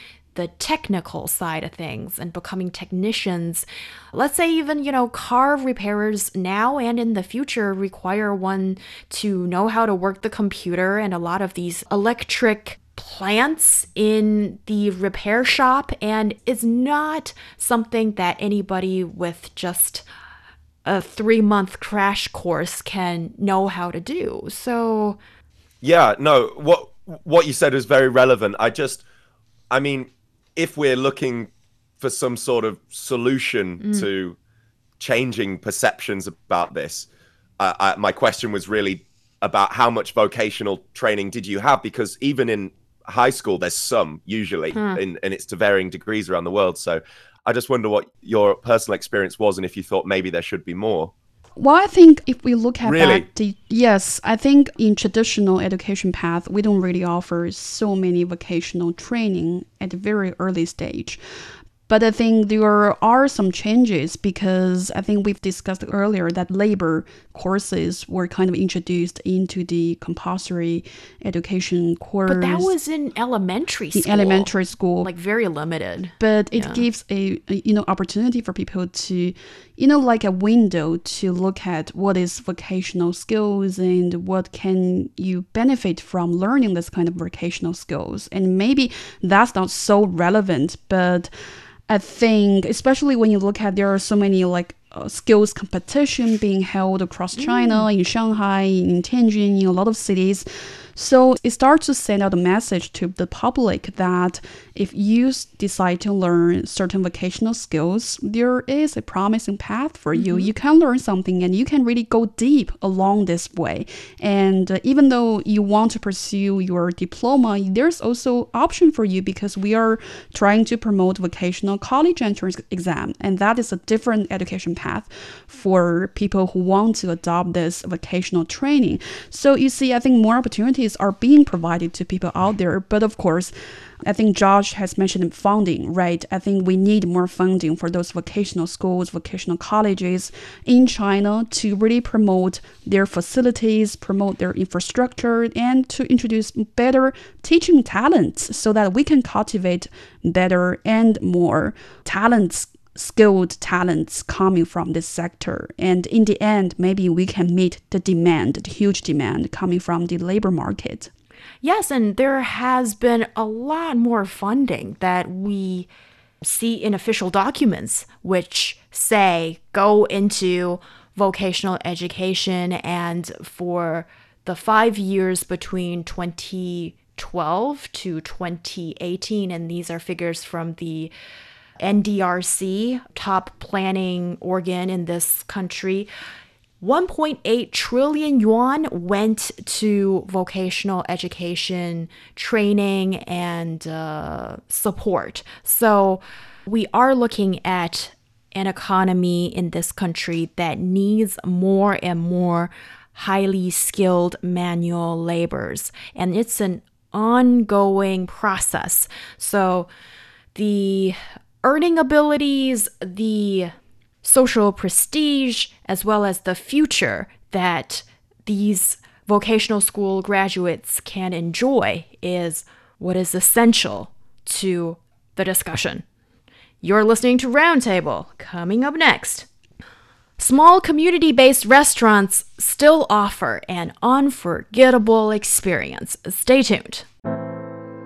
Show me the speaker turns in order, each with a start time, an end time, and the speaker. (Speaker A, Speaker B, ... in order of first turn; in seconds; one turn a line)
Speaker A: 0.3-20.1
Speaker A: 20.9-25.2
Speaker B: 25.8-29.0
Speaker B: 29.7-34.4
Speaker A: 33.8-34.1
Speaker B: 35.0-37.1
Speaker B: 37.6-51.1
Speaker C: 51.6-61.2
Speaker B: 52.9-53.3
Speaker C: 61.9-72.7
Speaker A: 72.3-76.9
Speaker C: 73.9-75.1
Speaker C: 76.2-91.3
Speaker C: 91.9-161.1
Speaker A: 97.4-97.9
Speaker A: 110.1-110.5
Speaker A: 161.6-165.9
Speaker A: 166.4-181.1
Speaker A: 181.8-186.1
Speaker A: 186.8-209.9
Speaker A: 210.6-226.1
Speaker A: 226.8-229.5
Speaker A: 230.4-237.1